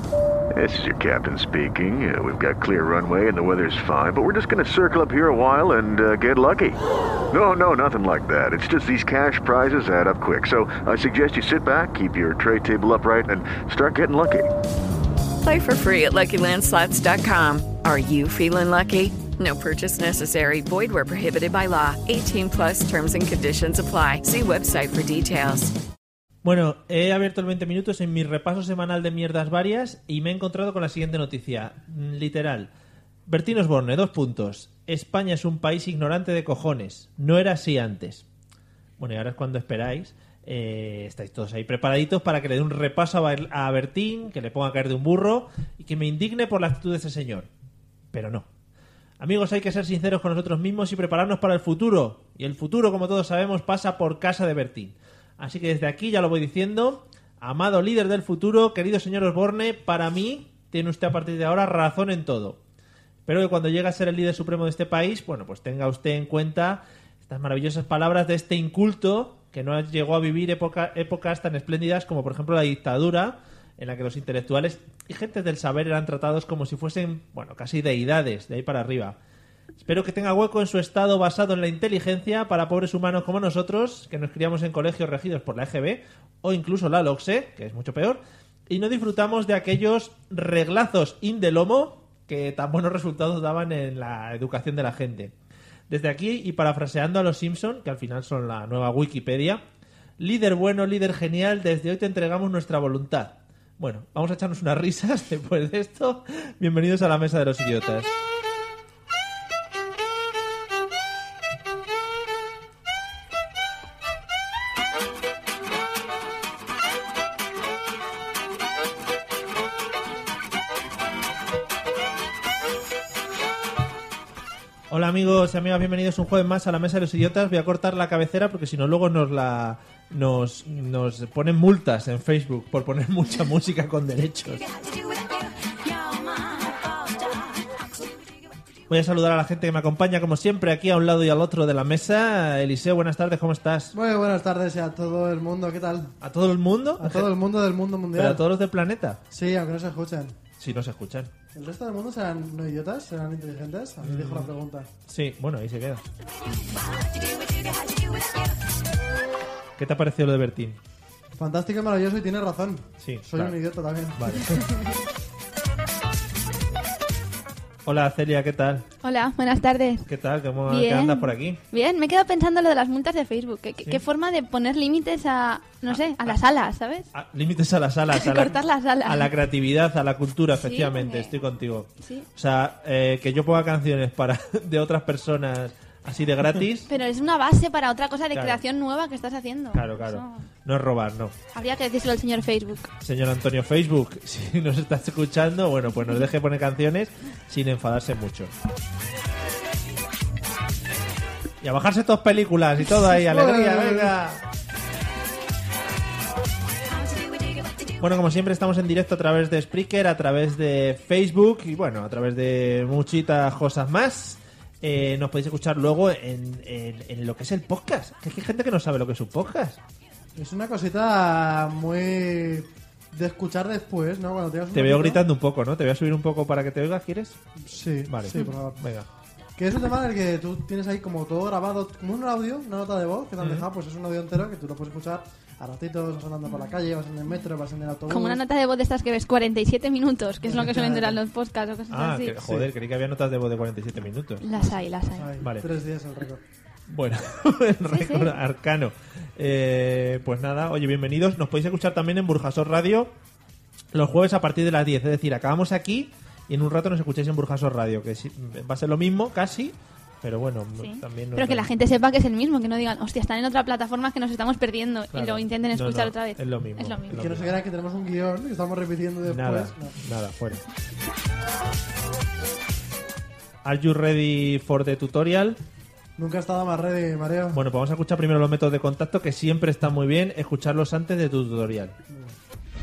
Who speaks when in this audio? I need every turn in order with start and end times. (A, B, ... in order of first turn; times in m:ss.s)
0:00.5-0:06.8 A
0:07.3-0:14.5 A
0:15.4-0:25.7 B
0:26.4-0:32.7 C
0:33.3-0:38.2 C
0:39.0-0:47.5 C
0:48.1-0:48.5 C
0:49.2-1:02.6 C
1:03.3-1:19.2 C
1:19.8-1:35.3 C
1:35.9-1:39.6 C
1:40.2-1:48.1 C
2:04.9-2:14.7 C
2:18.9-2:23.9 C
2:23.9-2:26.1 D
2:26.2-2:27.3 C
2:27.0-2:28.4 D
2:28.1-2:29.2 C
2:29.3-2:30.4 D
2:30.6-2:31.3 C
2:31.5-2:34.9 D
2:34.0-2:34.5 C
2:35.1-2:36.1 C
2:39.8-2:40.8 C
2:41.4-2:44.4 D
2:43.0-2:43.6 C
2:44.2-2:44.6 C
2:47.8-2:48.9 C
2:49.0-2:50.1 E
2:50.1-2:51.6 C
2:50.7-2:57.1 E
2:55.9-2:56.4 C
2:57.1-3:06.9 C
2:58.1-2:59.3 E
3:00.6-3:01.3 E
3:06.9-3:10.5 E
3:08.3-3:08.6 C
3:09.7-3:11.4 C
3:11.5-3:12.9 E
3:13.0-3:18.5 C
3:21.6-3:24.4 C
3:23.0-3:24.1 D
3:28.0-3:39.8 C
3:40.4-3:45.2 D
3:44.7-3:47.4 C
3:47.6-3:48.8 D
3:48.1-3:49.1 C
3:49.6-3:58.4 D
3:53.4-3:53.7 C
3:58.1-4:02.4 E
4:00.5-4:01.2 D
4:01.9-4:04.5 C
4:04.4-4:05.3 E
4:04.6-4:06.4 D
4:05.4-4:05.7 C
4:06.9-4:13.1 C
4:07.9-4:08.3 E
4:13.9-4:21.7 C
4:20.8-4:27.2 E
4:25.1-4:27.6 C
4:27.1-4:30.0 D
4:29.2-4:30.6 C
4:33.6-4:35.6 C
4:36.2-4:37.6 D
4:37.5-4:42.0 C